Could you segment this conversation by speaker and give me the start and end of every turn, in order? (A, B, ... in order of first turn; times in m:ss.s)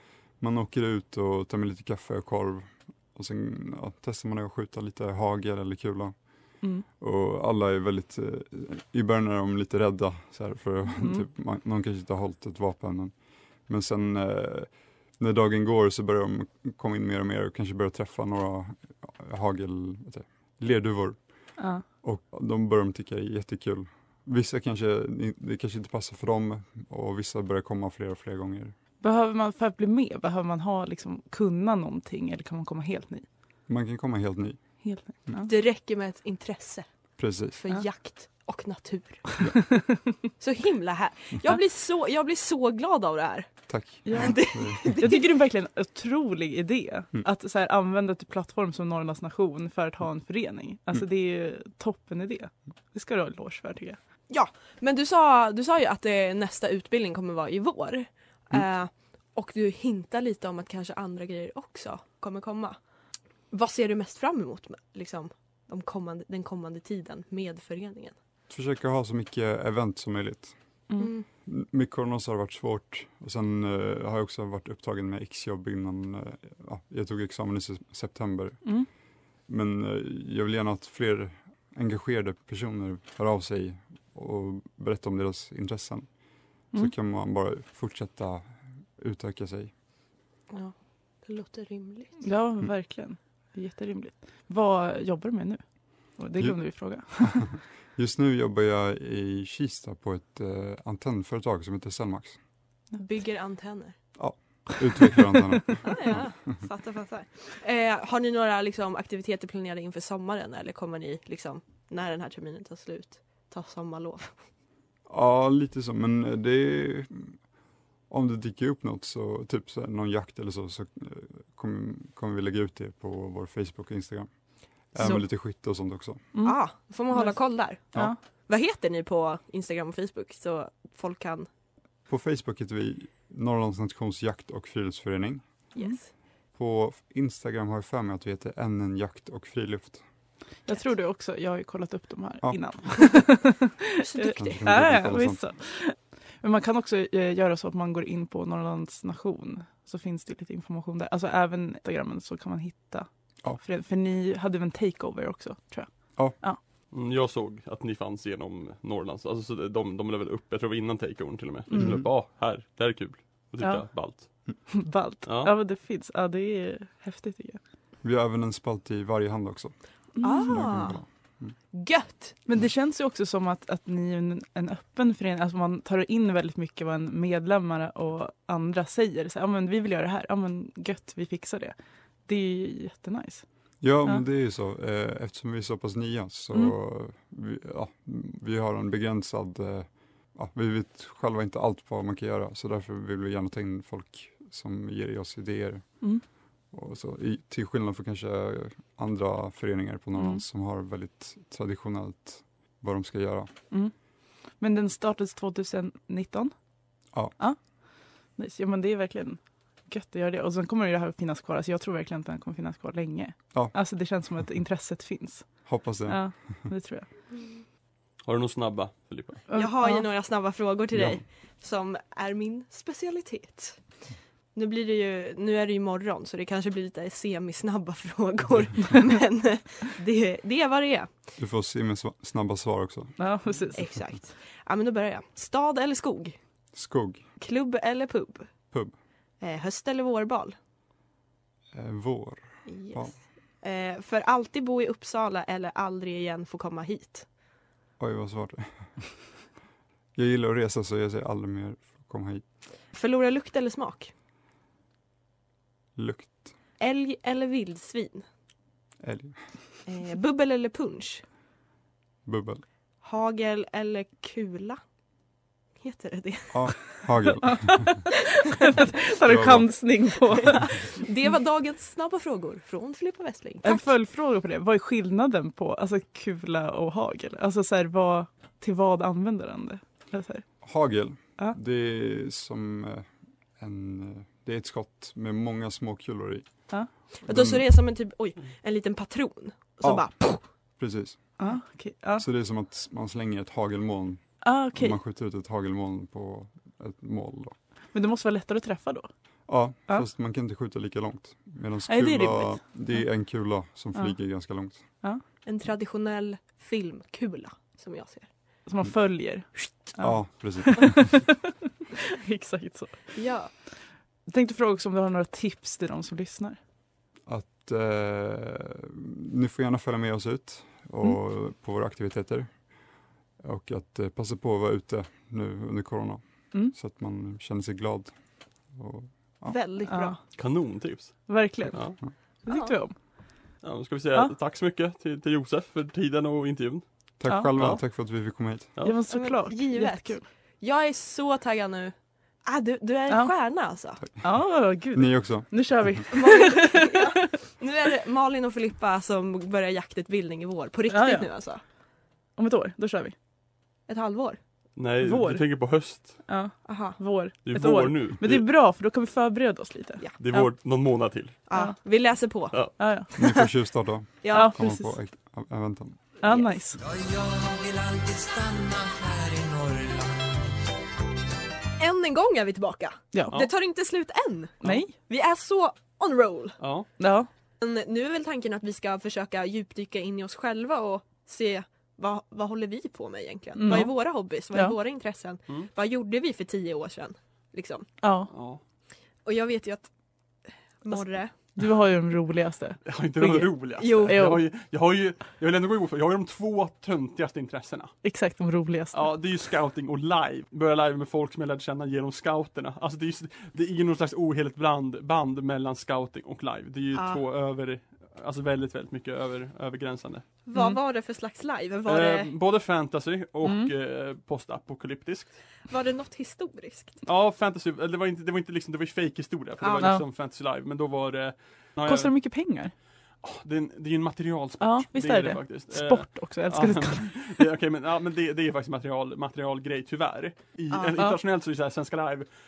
0:00.4-0:28.7 A
0:10.9-0:11.2 B
0:21.6-0:21.8 B
0:29.0-0:33.2 B
0:33.7-0:34.6 A
0:34.8-0:35.5 B
0:35.4-0:36.9 C
0:37.2-0:37.6 A
0:37.6-0:39.5 C
0:39.6-0:40.1 B
0:40.4-0:43.5 C
0:43.7-0:45.0 A
0:44.0-0:54.0 B
0:44.1-0:45.3 C
0:54.3-1:02.8 C
1:03.5-1:08.1 C
1:08.5-1:10.5 A
1:11.0-1:11.2 C
1:11.4-1:26.2 A
1:26.7-1:29.7 A
1:30.5-1:32.2 C
1:32.2-1:37.5 B
1:36.4-1:42.4 A
1:43.0-1:44.0 C
1:44.2-1:46.4 A
1:45.8-1:54.4 C
1:55.1-1:57.4 A
1:58.1-2:06.3 A
2:05.0-2:05.2 B
2:06.3-2:06.6 B
2:06.4-2:11.5 C
2:07.1-2:08.2 B
2:12.1-2:15.6 A
2:15.7-2:16.1 C
2:16.5-2:20.0 A
2:20.6-2:36.6 B
2:22.4-2:23.2 A
2:24.0-2:24.6 C
2:24.2-2:25.4 A
2:36.9-2:44.7 D
2:41.7-2:41.9 B
2:41.7-2:42.1 A
2:43.6-2:47.6 B
2:45.2-2:45.5 D
2:48.0-2:51.5 A
2:50.2-2:50.6 B
2:50.2-2:51.0 C
2:51.7-2:52.3 C
2:52.4-3:01.7 B
3:02.3-3:03.4 B
3:03.8-3:16.2 A
3:16.7-3:23.5 A
3:20.2-3:20.4 B
3:24.5-3:26.5 B
3:27.4-3:37.1 B
3:35.6-3:36.6 A
3:38.2-3:39.4 D
3:39.5-3:40.0 B
3:39.5-3:43.8 C
3:40.9-3:41.2 A
3:44.5-3:51.2 C
3:51.4-3:53.7 A
3:53.2-3:53.9 B
3:53.7-3:56.4 C
3:56.7-3:57.3 A
3:57.4-3:58.5 C
3:59.4-4:00.6 C
4:01.7-4:03.1 A
4:02.6-4:07.3 C
4:08.0-4:09.2 A
4:10.1-4:12.4 A
4:12.9-4:14.1 C
4:16.0-4:16.5 A
4:16.8-4:18.2 C
4:19.0-4:19.4 A
4:19.8-4:21.2 C
4:22.2-4:22.6 A
4:23.0-4:24.8 C
4:25.8-4:27.1 C
4:26.5-4:28.1 A
4:28.0-4:30.7 B
4:29.2-4:30.6 A
4:30.7-4:33.9 C
4:33.6-4:40.5 B
4:40.6-4:47.7 A
4:47.2-4:50.4 C
4:49.8-4:51.5 A
4:51.4-4:52.2 B
4:52.2-4:57.5 A
4:54.4-4:55.0 B
4:57.9-4:59.1 B
4:59.5-5:04.9 A
5:01.9-5:03.0 B
5:04.8-5:05.2 B
5:05.4-5:08.3 C
5:08.6-5:11.5 B
5:10.0-5:11.3 A
5:12.2-5:13.6 B
5:13.1-5:13.5 C
5:14.3-5:16.6 B
5:17.2-5:22.7 A
5:23.4-5:29.6 A
5:29.5-5:30.2 C
5:29.9-5:30.2 B
5:30.3-5:32.0 D
5:31.3-5:33.2 B
5:32.4-5:32.8 C
5:33.6-5:36.8 D
5:37.2-5:38.8 A
5:37.3-5:37.5 B
5:37.6-5:37.8 D
5:38.8-5:40.2 B
5:39.1-5:44.0 C
5:44.1-5:46.0 A
5:44.2-5:47.2 B
5:46.1-5:51.6 C
5:50.9-5:51.3 B
5:52.4-5:53.1 B
5:53.9-5:54.4 C
5:54.8-5:56.3 D
5:55.0-6:00.5 B
5:56.6-5:57.0 C
5:57.4-5:58.4 D
6:00.2-6:01.4 D
6:01.3-6:01.8 B
6:01.5-6:03.5 C
6:02.8-6:03.1 B
6:03.2-6:06.2 A
6:04.2-6:04.6 C
6:04.3-6:05.0 B
6:06.2-6:06.8 B
6:06.2-6:06.5 C
6:06.8-6:10.4 E
6:11.8-6:16.6 C
6:14.6-6:14.9 B
6:16.6-6:16.9 D
6:17.0-6:17.3 B
6:17.6-6:27.9 C
6:23.6-6:24.8 B
6:28.0-6:28.3 B
6:28.3-6:28.6 D
6:29.2-6:29.9 C
6:30.8-6:31.3 C
6:30.9-6:34.4 B
6:32.8-6:38.0 D
6:33.8-6:34.2 C
6:38.0-6:39.1 B
6:38.9-6:50.2 D
6:46.9-6:47.2 C
6:50.4-6:52.3 C
6:50.5-6:50.8 B
6:51.8-6:55.4 D
6:53.4-6:53.7 B
6:55.7-6:57.0 C
6:57.0-7:02.1 D
6:59.6-6:59.9 C
7:01.8-7:02.7 B
7:03.2-7:12.3 D
7:04.6-7:07.4 B
7:10.7-7:11.0 C